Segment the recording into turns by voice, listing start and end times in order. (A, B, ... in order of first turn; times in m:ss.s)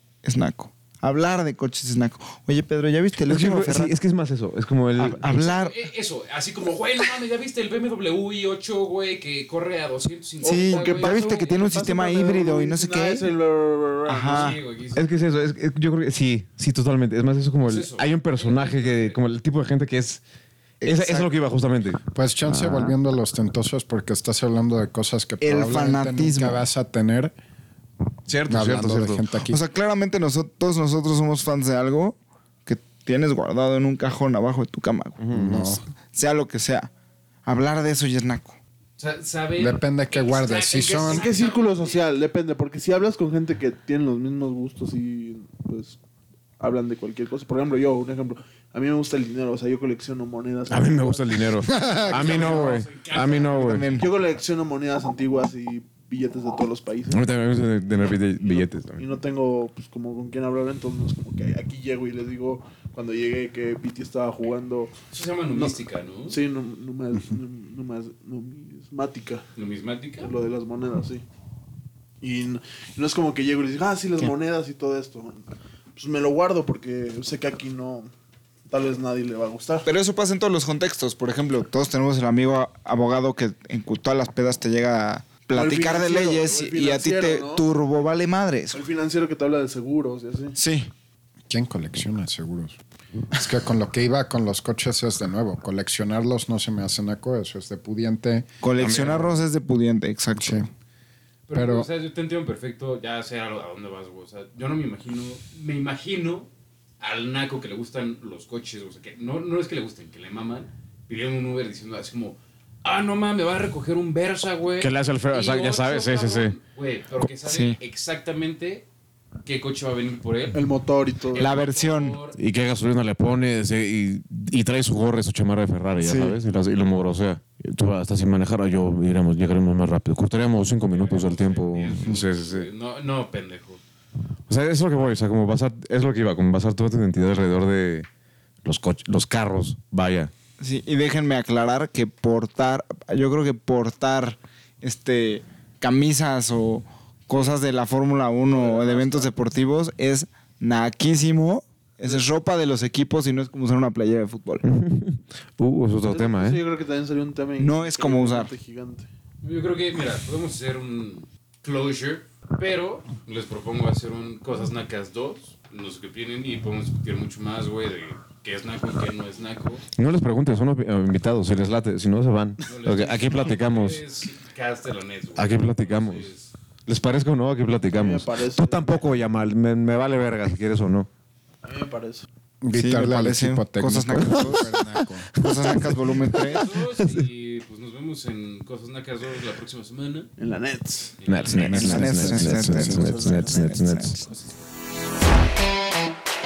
0:00.2-0:03.9 A
0:03.2-0:05.3 B
0:05.0-0:05.8 A
0:05.2-0:11.8 C
0:10.4-0:14.5 D
0:10.4-0:13.3 A
0:14.0-0:14.6 A
0:14.3-0:15.2 C
0:15.0-0:20.2 B
0:17.6-0:19.2 C
0:20.8-0:21.3 A
0:20.8-0:22.9 B
0:22.1-0:27.3 E
0:25.4-0:26.6 A
0:28.2-0:29.2 B
0:28.5-0:29.6 E
0:29.5-0:36.9 A
0:35.2-0:35.7 B
0:35.3-0:35.8 E
0:37.4-0:38.6 A
0:39.0-0:42.0 C
0:39.6-0:41.2 E
0:40.8-0:46.0 D
0:46.6-0:51.4 D
0:50.7-0:53.9 B
0:51.6-0:52.4 E
0:52.1-0:54.0 C
0:52.2-0:52.7 D
0:53.5-0:54.1 A
0:53.9-0:57.2 D
0:57.1-0:59.0 B
0:58.4-1:04.9 D
1:05.1-1:06.4 C
1:06.3-1:09.4 D
1:09.6-1:10.3 C
1:10.2-1:11.2 D
1:12.2-1:15.4 D
1:16.0-1:18.1 D
1:18.7-1:19.8 D
1:19.8-1:28.8 A
1:25.5-1:27.7 D
1:28.7-1:30.6 D
1:30.6-1:30.9 A
1:31.5-1:32.8 E
1:33.3-1:38.5 E
1:38.6-1:40.6 A
1:38.7-1:39.4 B
1:40.4-1:40.7 E
1:41.5-1:58.8 C
1:41.5-1:41.9 E
1:54.8-1:56.6 B
1:57.4-1:57.8 A
1:59.4-2:00.6 C
2:00.5-2:01.5 D
2:01.3-2:02.4 C
2:01.3-2:02.2 A
2:02.4-2:12.7 B
2:06.0-2:06.4 A
2:10.9-2:13.8 C
2:14.5-2:18.1 B
2:18.6-2:20.3 B
2:20.6-2:34.6 A
2:28.4-2:29.3 D
2:34.6-2:36.6 B
2:36.1-2:39.1 D
2:37.6-2:38.5 A
2:39.4-2:49.8 C
2:49.9-2:54.0 B
2:52.6-2:56.5 C
2:55.4-2:56.3 B
2:56.9-3:01.1 B
2:57.9-2:59.0 D
3:01.6-3:02.2 D
3:02.6-3:05.3 E
3:02.7-3:04.7 A
3:04.1-3:07.2 B
3:05.4-3:06.7 A
3:06.5-3:10.3 C
3:10.4-3:11.2 D
3:11.2-3:12.2 C
3:11.3-3:14.2 B
3:11.5-3:14.1 A
3:11.9-3:13.2 E
3:12.8-3:14.0 D
3:14.1-3:14.5 C